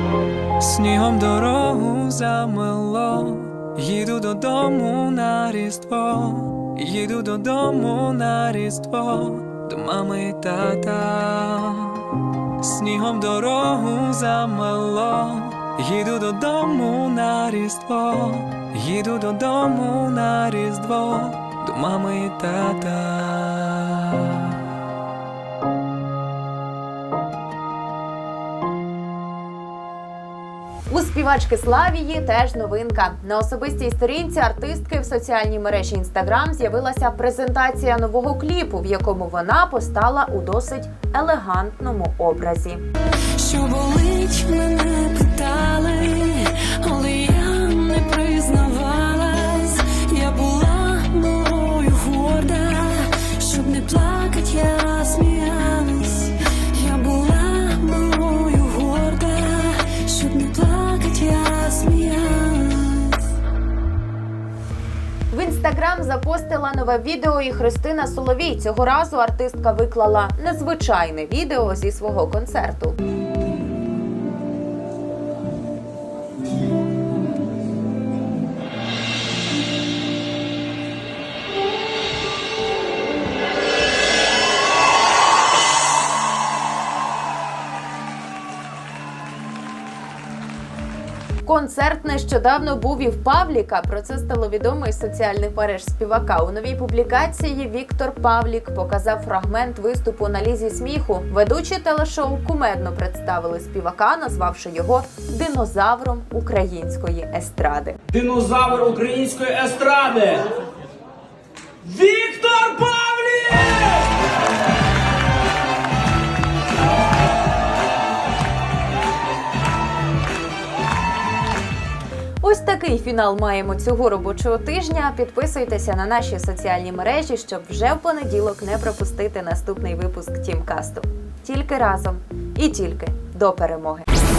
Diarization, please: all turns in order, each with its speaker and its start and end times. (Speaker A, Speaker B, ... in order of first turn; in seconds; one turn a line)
Speaker A: 0.6-24.6
Speaker B: 30.9-42.8
Speaker C: 43.4-63.3
Speaker B: 65.3-73.0
Speaker B: 91.4-108.0
Speaker D: 108.1-110.5
Speaker D: 111.9-113.8
Speaker B: 122.4-134.1